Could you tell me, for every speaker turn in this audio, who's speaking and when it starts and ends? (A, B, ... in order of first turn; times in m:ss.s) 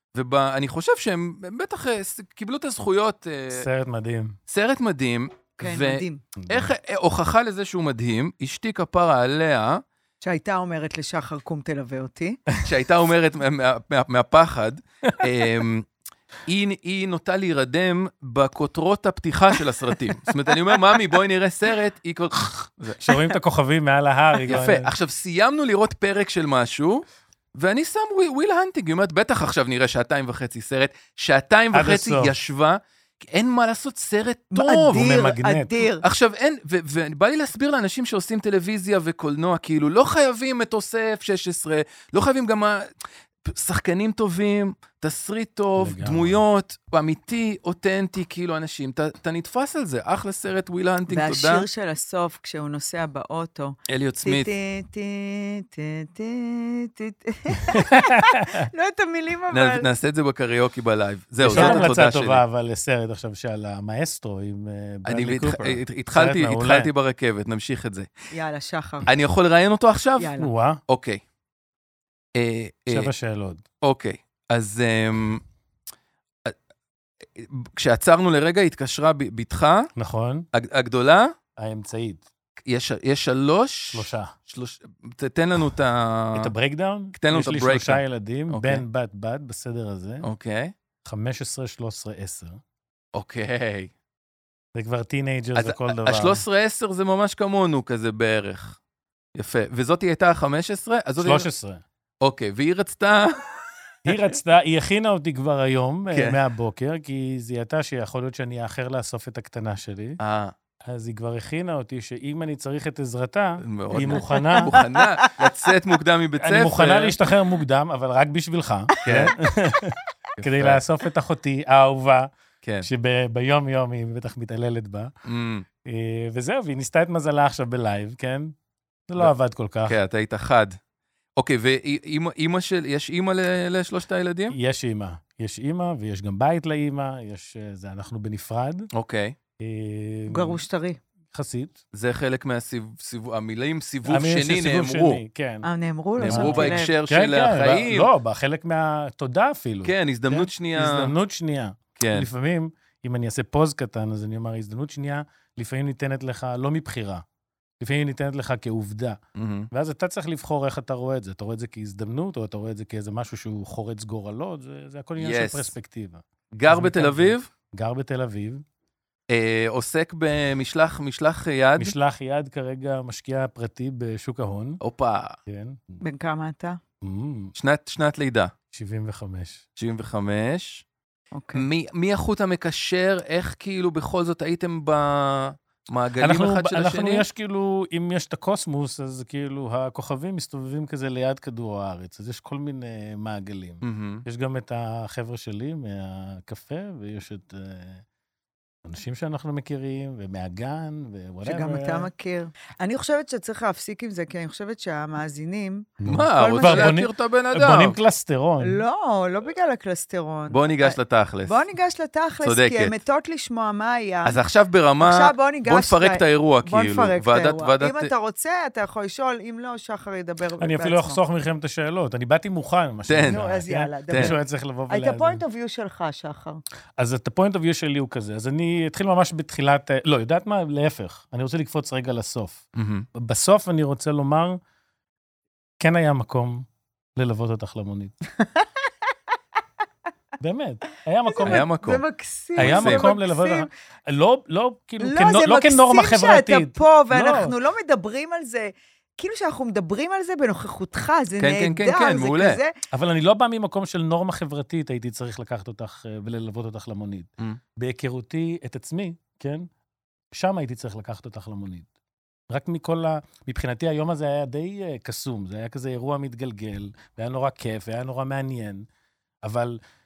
0:00.1-0:03.7 A
0:03.5-0:04.4 B
0:04.5-0:09.8 A
0:05.6-0:06.2 C
0:06.4-0:06.7 B
0:10.2-0:12.4 C
0:12.6-0:15.9 A
0:16.4-0:23.1 A
0:23.0-0:24.9 B
0:24.4-0:35.2 A
0:31.7-0:32.3 B
0:34.5-0:36.0 C
0:34.9-0:35.7 B
0:36.0-0:42.9 A
0:43.4-0:51.6 A
0:45.8-0:46.4 B
0:51.1-0:59.9 C
0:53.9-0:54.5 A
0:57.7-0:58.5 B
0:59.5-1:02.4 A
1:01.4-1:06.9 B
1:01.5-1:01.9 C
1:05.0-1:08.1 A
1:08.3-1:09.1 C
1:09.0-1:10.3 A
1:10.2-1:10.5 C
1:10.4-1:10.8 B
1:10.9-1:11.2 A
1:12.3-1:13.1 A
1:12.9-1:13.6 B
1:13.8-1:15.4 A
1:17.4-1:19.9 A
1:20.0-1:20.5 B
1:20.5-1:21.3 A
1:21.6-1:22.2 B
1:22.6-1:26.5 A
1:23.9-1:24.3 B
1:26.3-1:30.2 B
1:27.2-1:28.8 A
1:30.2-1:30.7 A
1:31.0-1:32.6 B
1:33.1-1:33.9 A
1:34.7-1:36.4 B
1:35.6-1:38.8 A
1:39.4-1:41.4 A
1:41.2-1:41.8 B
1:42.2-1:43.5 A
1:44.0-1:50.2 B
1:46.1-1:46.4 A
1:50.2-1:50.5 A
1:50.8-1:54.7 B
1:53.6-1:57.2 A
1:54.1-1:55.3 C
1:56.4-2:02.3 B
1:59.0-1:59.3 A
2:00.3-2:00.8 A
2:02.6-2:02.9 A
2:02.8-2:05.1 B
2:05.2-2:05.6 A
2:05.8-2:08.5 B
2:09.1-2:10.0 B
2:09.8-2:10.8 A
2:11.4-2:14.5 A
2:14.5-2:18.9 B
2:18.9-2:19.3 A
2:19.6-2:20.6 B
2:20.3-2:21.0 C
2:21.3-2:21.8 B
2:21.9-2:25.2 A
2:24.0-2:25.7 B
2:25.6-2:26.9 C
2:26.2-2:28.1 A
2:26.2-2:37.2 B
2:29.8-2:31.1 A
2:32.0-2:32.3 A
2:37.8-2:39.2 B
2:39.4-2:39.7 A
2:39.7-2:48.6 B
2:45.2-2:45.7 A
2:46.5-2:47.5 A
2:49.3-2:51.9 A
2:51.8-2:54.8 B
2:54.8-2:55.4 A
2:55.5-2:55.9 B
2:56.0-2:56.8 C
2:57.0-2:57.5 B
2:57.6-2:58.5 A
2:58.7-2:59.6 B
2:59.8-3:00.8 A
3:01.3-3:01.6 C
3:01.5-3:07.2 A
3:06.2-3:18.0 B
3:13.8-3:14.2 A
3:18.8-3:22.1 B
3:21.4-3:27.0 C
3:26.0-3:28.8 B
3:26.0-3:28.0 A
3:28.6-3:34.4 C
3:30.5-3:31.6 A
3:32.4-3:33.0 A
3:34.2-3:38.1 A
3:35.0-3:41.2 C
3:40.6-3:45.4 B
3:43.1-3:43.4 A
3:43.2-3:46.6 C
3:47.0-3:52.6 B
3:52.7-3:53.0 A
3:53.1-3:54.6 B
3:55.8-3:58.1 B
3:58.4-3:58.7 C
4:00.4-4:01.6 B
4:01.2-4:03.7 C
4:01.4-4:02.0 A
4:02.6-4:03.0 A
4:02.6-4:07.5 B
4:05.0-4:12.7 C
4:11.4-4:12.6 A
4:12.9-4:19.7 B
4:20.3-4:21.9 B
4:22.5-4:28.9 B
4:29.4-4:29.8 B